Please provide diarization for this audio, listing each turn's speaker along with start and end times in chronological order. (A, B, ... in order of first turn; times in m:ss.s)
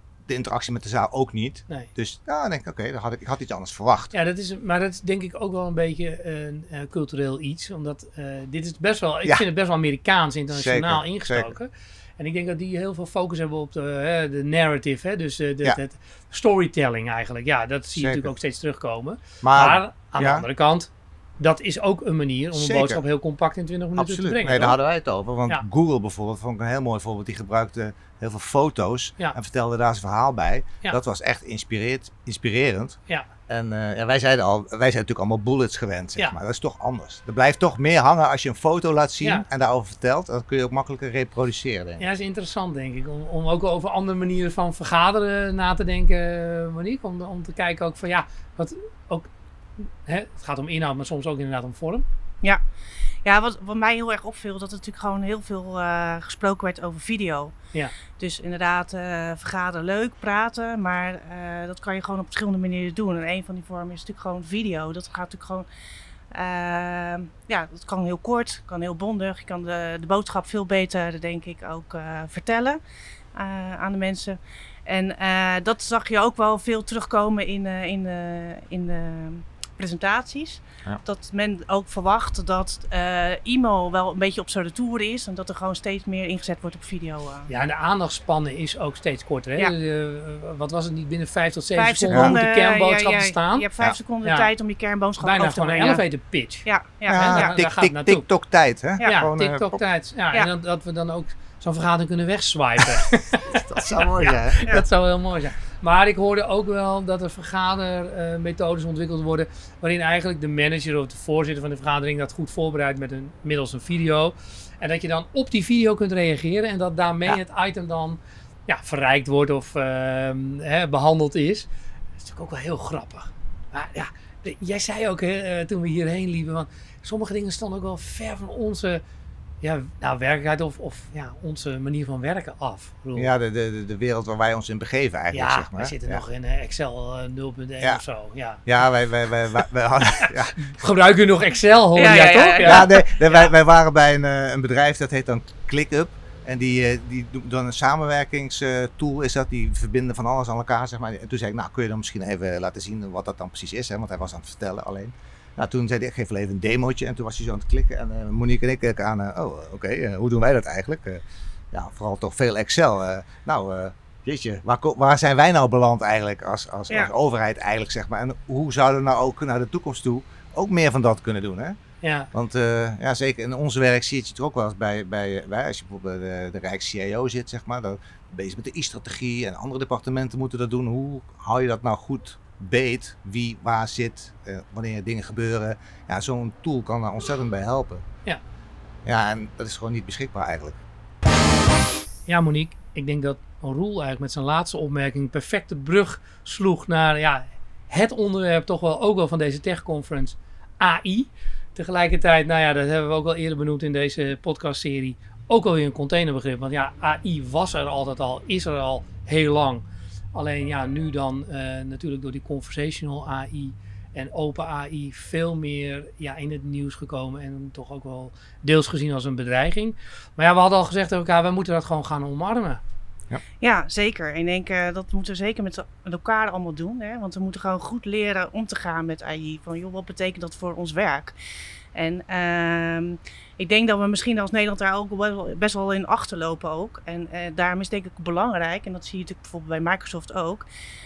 0:00.2-0:04.1 A
0:04.1-0:24.8 B
0:10.5-0:11.5 A
0:18.0-0:18.3 A
0:19.4-0:20.4 A
0:22.5-0:23.0 A
0:24.0-0:33.0 A
0:33.5-0:42.0 A
0:42.0-0:52.0 B
0:53.2-0:57.6 C
0:58.1-1:05.6 C
1:06.3-1:12.8 C
1:13.3-1:27.5 C
1:27.5-1:33.7 B
1:31.8-1:36.0 C
1:32.1-1:32.4 A
1:34.2-1:34.5 B
1:35.2-1:38.2 B
1:36.6-1:37.6 C
1:37.1-1:39.8 A
1:39.0-1:43.6 B
1:43.5-1:44.8 A
1:44.2-2:01.7 B
2:02.2-2:09.0 B
2:09.6-2:13.3 B
2:13.2-2:16.2 A
2:15.3-2:18.6 B
2:18.6-2:20.6 A
2:20.6-2:23.5 B
2:22.0-2:22.8 C
2:22.6-2:51.8 A
2:52.0-2:52.3 B
2:52.3-3:08.0 A
3:09.0-3:10.8 A
3:12.3-3:42.8 B
3:43.6-3:51.3 C
3:51.9-4:00.6 C